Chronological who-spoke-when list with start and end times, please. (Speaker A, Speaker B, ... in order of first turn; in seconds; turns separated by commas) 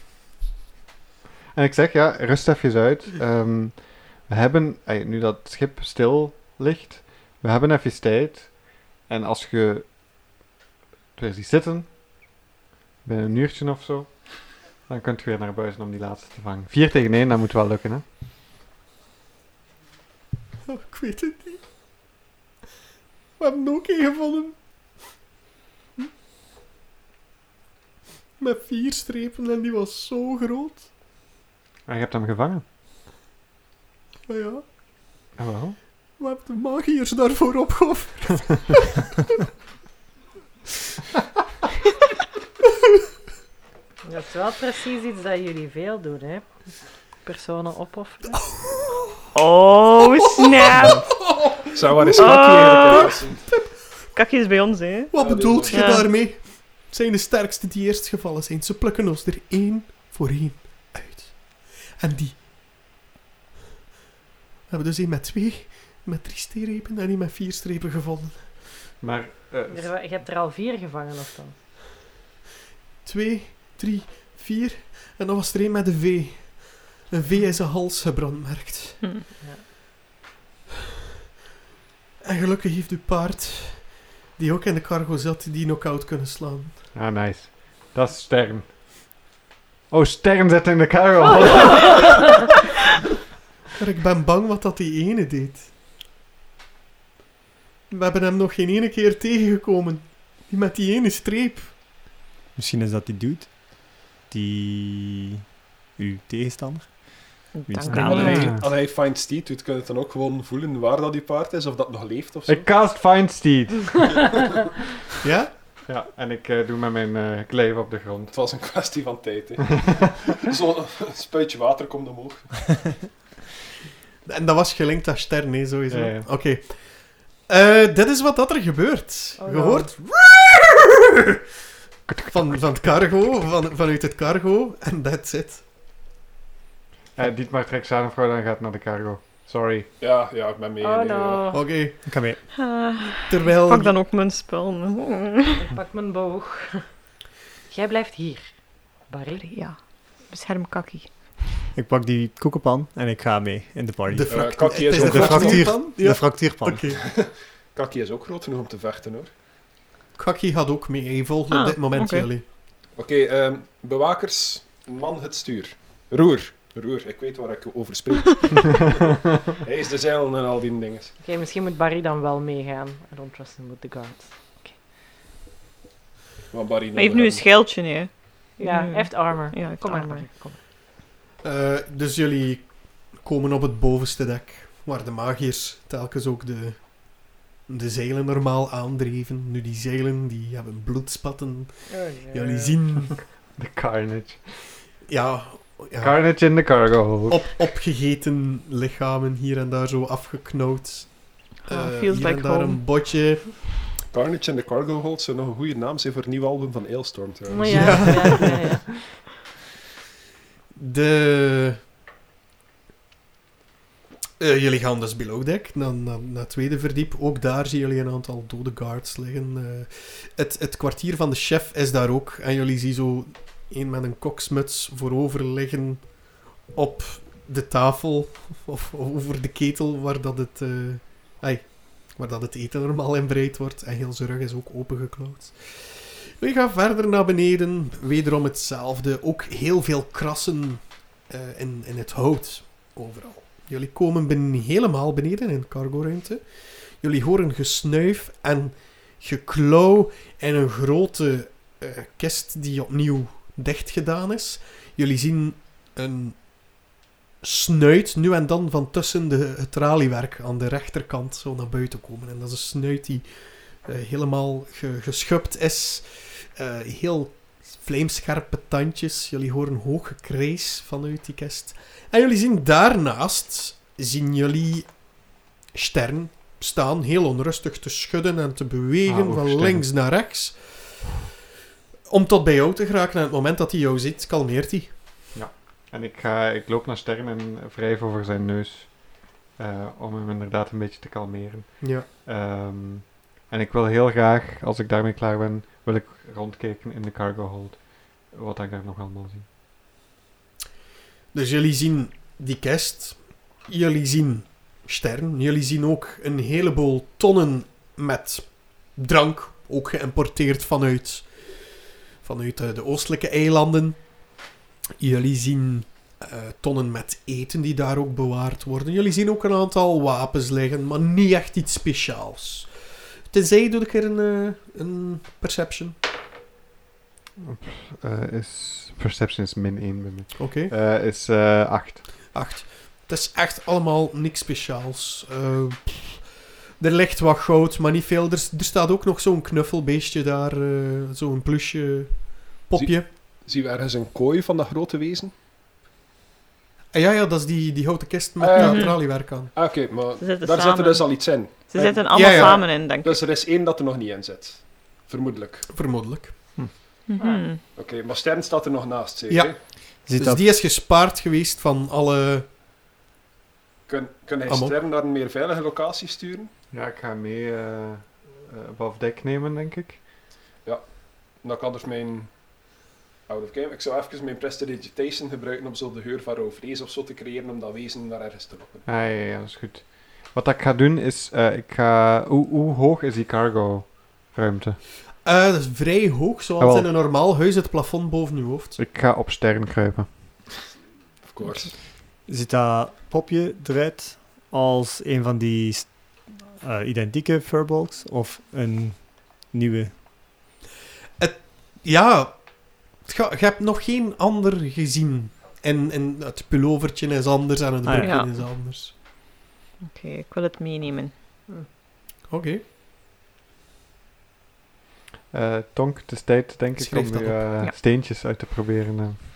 Speaker A: 1.5-10.0, Speaker A: 11.2-11.9, Speaker A: 13.0-18.0, Speaker B: 20.7-21.6, Speaker B: 23.4-24.6, Speaker B: 28.4-30.9, Speaker A: 31.9-32.6, Speaker B: 34.3-34.6, Speaker A: 35.4-35.8, Speaker B: 36.1-38.9, Speaker C: 44.0-48.4, Speaker B: 48.3-49.3, Speaker D: 49.4-51.1, Speaker B: 50.4-53.9, Speaker E: 51.7-53.4, Speaker D: 52.2-53.2, Speaker D: 54.1-55.1, Speaker B: 55.1-62.4, Speaker E: 55.2-56.0, Speaker D: 55.7-56.1, Speaker B: 64.7-68.6, Speaker A: 69.0-69.9, Speaker C: 69.7-71.5, Speaker B: 73.0-79.0, Speaker B: 82.2-86.8, Speaker A: 87.0-88.8, Speaker A: 89.9-92.3, Speaker B: 93.8-95.7, Speaker B: 97.9-101.7, Speaker F: 102.6-105.4, Speaker F: 106.0-108.6, Speaker D: 107.5-108.5, Speaker A: 107.9-108.6, Speaker E: 107.9-112.8, Speaker A: 112.5-114.5, Speaker B: 115.2-115.5, Speaker A: 115.9-118.6, Speaker E: 118.3-123.0, Speaker B: 124.2-131.4, Speaker A: 125.9-126.3, Speaker C: 129.4-129.9, Speaker A: 132.1-132.8, Speaker B: 132.3-135.6, Speaker A: 137.2-139.9, Speaker E: 140.0-141.5, Speaker C: 140.8-141.6, Speaker B: 141.5-142.4, Speaker F: 142.1-142.4, Speaker D: 142.5-145.6, Speaker B: 143.3-143.9, Speaker C: 145.6-146.9, Speaker C: 147.7-149.5, Speaker D: 149.4-151.4, Speaker F: 151.7-156.8, Speaker B: 154.1-157.0, Speaker E: 154.3-155.8, Speaker E: 157.0-159.3, Speaker B: 160.2-162.5, Speaker D: 161.5-162.3, Speaker E: 162.9-169.1, Speaker E: 169.6-171.2, Speaker C: 171.2-174.8, Speaker E: 176.5-177.6, Speaker D: 176.9-180.4, Speaker C: 178.6-180.6, Speaker B: 181.4-193.2, Speaker C: 191.9-192.8, Speaker A: 193.1-194.5, Speaker B: 195.1-196.4, Speaker A: 196.0-197.5, Speaker B: 197.3-203.6, Speaker D: 201.6-202.8, Speaker E: 204.1-208.5, Speaker C: 207.5-208.8, Speaker B: 207.7-208.6, Speaker B: 210.8-211.8, Speaker B: 214.4-256.8, Speaker B: 257.4-281.1, Speaker A: 279.1-279.9, Speaker B: 282.1-285.0, Speaker A: 285.3-299.5, Speaker B: 291.8-292.1, Speaker B: 301.3-311.7, Speaker B: 312.2-314.4, Speaker B: 315.0-326.0, Speaker A: 327.4-332.1, Speaker B: 330.4-330.7, Speaker B: 332.3-343.1, Speaker E: 342.8-345.3, Speaker B: 346.9-349.6, Speaker E: 348.4-355.7, Speaker D: 348.6-349.0, Speaker D: 350.2-353.2, Speaker B: 352.1-352.6, Speaker B: 355.7-356.7, Speaker D: 357.1-357.6, Speaker C: 357.2-357.4, Speaker E: 357.7-359.7, Speaker B: 359.3-362.5, Speaker F: 360.1-360.5, Speaker E: 363.9-366.5, Speaker B: 364.5-364.8, Speaker A: 366.7-370.0, Speaker E: 370.6-372.7, Speaker E: 373.3-378.9, Speaker A: 378.9-384.8, Speaker B: 385.2-388.8, Speaker A: 386.6-386.9, Speaker A: 388.8-390.3, Speaker E: 391.2-391.8, Speaker F: 392.2-400.0, Speaker B: 401.2-408.9, Speaker F: 407.8-408.1, Speaker D: 408.0-408.4, Speaker D: 409.9-411.1, Speaker B: 412.3-412.6, Speaker A: 415.3-419.2, Speaker B: 416.8-417.6